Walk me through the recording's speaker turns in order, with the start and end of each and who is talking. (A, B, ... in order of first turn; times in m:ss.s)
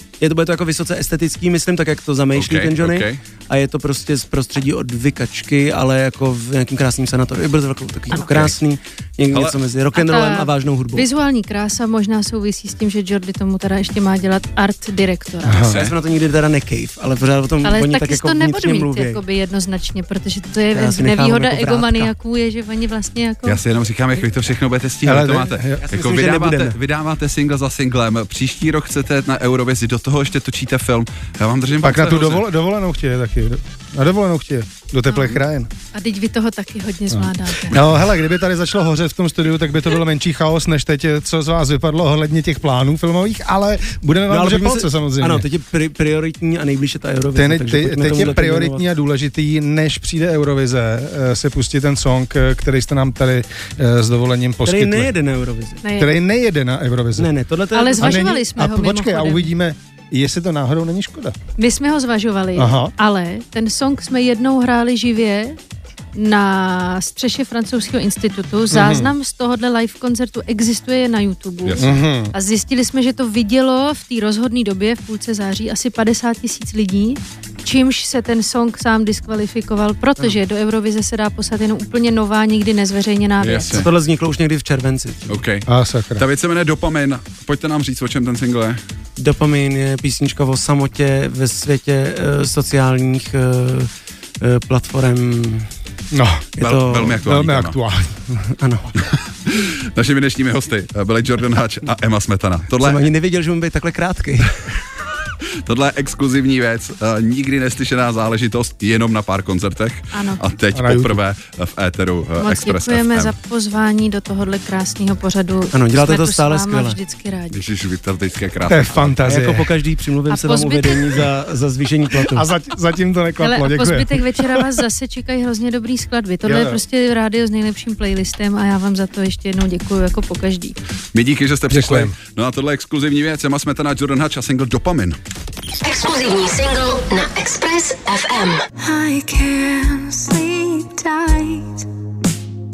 0:00.2-0:11.0 A
0:02.3-0:03.2 B
0:08.1-0:08.5 B
0:09.9-0:15.6 C
0:15.4-0:15.8 D
0:15.6-0:15.9 B
0:15.6-0:19.2 A
0:17.6-0:23.6 C
0:20.7-0:22.1 A
0:23.4-0:32.4 B
0:25.0-0:25.8 D
0:25.8-0:26.8 A
0:31.8-0:35.7 D
0:35.1-0:35.4 C
0:35.9-0:37.8 C
0:37.1-0:45.4 D
0:44.3-0:48.9 A
0:47.3-0:55.1 D
0:54.6-0:55.8 A
0:55.8-0:56.2 C
0:56.0-0:57.3 D
0:57.2-0:58.3 A
0:57.7-0:59.5 C
0:58.0-1:01.4 D
1:01.6-1:05.6 C
1:02.5-1:02.9 D
1:06.1-1:23.8 C
1:08.7-1:09.1 D
1:11.6-1:11.9 B
1:11.8-1:12.3 D
1:23.4-1:23.9 B
1:23.7-1:25.4 A
1:25.3-1:28.8 B
1:25.7-1:26.2 D
1:29.2-1:35.7 A
1:36.1-1:36.5 D
1:36.6-1:37.2 A
1:36.6-1:37.8 B
1:37.1-1:38.3 D
1:38.3-1:39.0 A
1:38.9-1:43.1 B
1:42.8-1:44.6 A
1:45.4-1:53.3 B
1:50.1-1:50.4 C
1:50.7-1:51.2 D
1:52.4-1:57.6 C
1:55.7-1:57.0 A
1:57.5-1:59.2 B
1:58.7-1:59.7 D
1:59.2-2:02.5 A
2:00.3-2:01.2 C
2:02.2-2:04.8 D
2:03.4-2:10.8 C
2:06.4-2:06.8 D
2:11.1-2:15.2 B
2:11.7-2:12.1 D
2:15.8-2:18.7 E
2:18.9-2:21.3 C